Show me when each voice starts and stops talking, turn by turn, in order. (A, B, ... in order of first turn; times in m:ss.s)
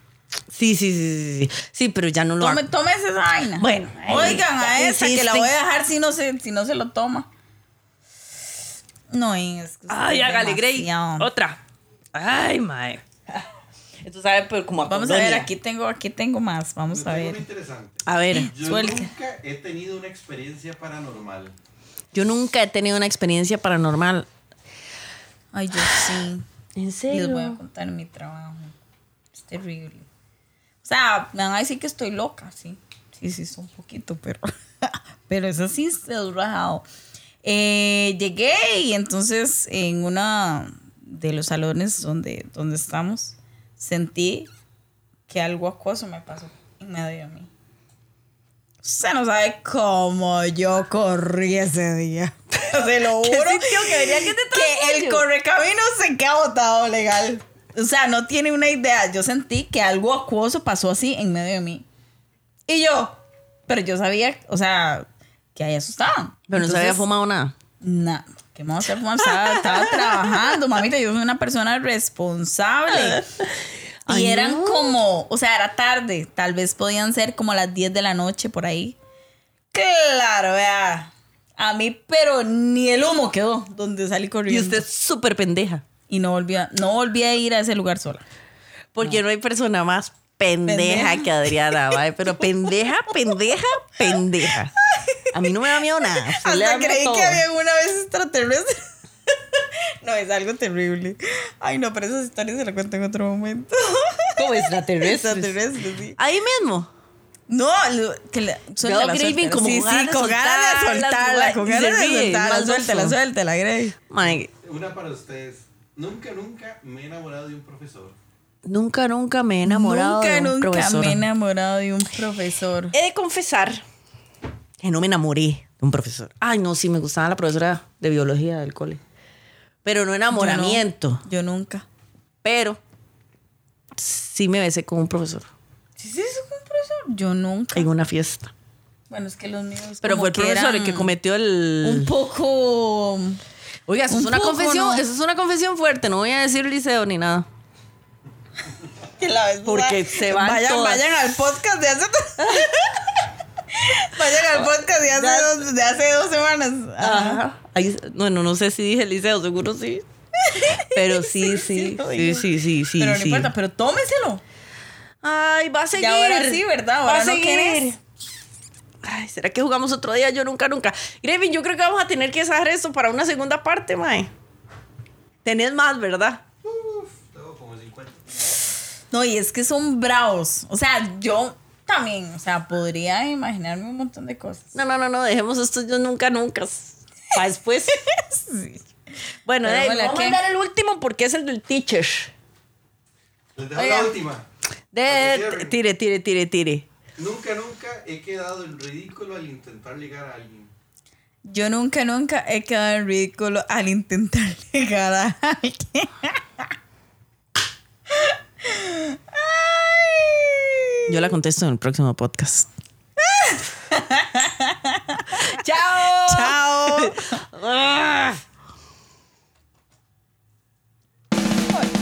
0:00.5-0:02.6 A
0:02.4-0:07.3 B
0:03.6-0:05.5 A
0:09.1-0:11.3 B
0:09.9-0:11.6 A
0:12.1-0:13.0 A
0:14.0-0:15.5 A
0:14.8-0:17.4 B
0:16.9-0:21.5 C
0:18.0-0:18.5 A
0:18.3-0:19.1 B
0:22.1-0:24.3 A
0:25.5-0:26.4 B
0:26.8-0:27.6 A
0:27.1-0:28.8 B
0:29.3-0:30.1 B
0:30.8-0:36.8 B
0:37.4-0:44.5 B
0:45.3-0:47.5 B
0:48.8-1:01.8 B
0:53.0-0:55.2 A
1:02.7-1:07.0 B
1:06.5-1:07.5 A
1:07.8-1:13.2 B
1:09.2-1:10.4 A
1:12.9-1:13.4 A
1:14.0-1:19.0 B
1:14.1-1:15.0 A
1:19.7-1:24.8 B
1:24.5-1:25.8 A
1:26.1-1:28.2 B
1:28.9-1:34.7 A
1:30.7-1:31.9 B
1:35.0-1:46.2 B
1:35.3-1:37.4 A
1:44.4-1:45.6 A
1:46.2-1:46.9 A
1:47.5-1:54.0 B
1:48.8-1:53.2 A
1:54.1-1:54.5 A
1:54.2-1:58.1 C
1:58.6-2:01.2 A
1:59.6-2:02.9 B
2:02.9-2:03.8 A
2:04.8-2:09.0 A
2:09.8-2:11.2 A
2:10.3-2:11.8 B
2:12.4-2:12.8 A
2:13.9-2:15.5 A
2:16.0-2:17.9 B
2:17.7-2:18.5 A
2:19.1-2:21.1 B
2:20.0-2:22.1 A
2:21.8-2:23.4 B
2:23.9-2:27.5 A
2:24.1-2:25.0 B
2:29.2-2:37.4 B
2:29.6-2:31.1 A
2:32.4-2:32.7 A
2:34.4-2:35.7 A
2:37.0-2:40.0 A
2:40.4-2:44.4 B
2:40.7-2:43.5 A
2:45.2-2:48.0 A
2:46.0-2:47.8 B
2:49.0-2:54.3 A
2:55.4-2:56.4 A
2:56.6-2:58.5 C
2:59.1-3:04.7 B
3:04.7-3:08.0 A
3:08.1-3:08.8 B
3:09.4-3:12.3 A
3:09.6-3:10.4 B
3:13.6-3:14.4 C
3:13.7-3:14.1 B
3:14.9-3:16.8 A
3:15.0-3:15.8 C
3:17.2-3:20.7 C
3:21.4-3:26.4 B
3:28.1-3:31.1 B
3:31.1-3:32.7 A
3:33.2-3:35.5 B
3:35.4-3:38.4 A
3:36.1-3:37.4 B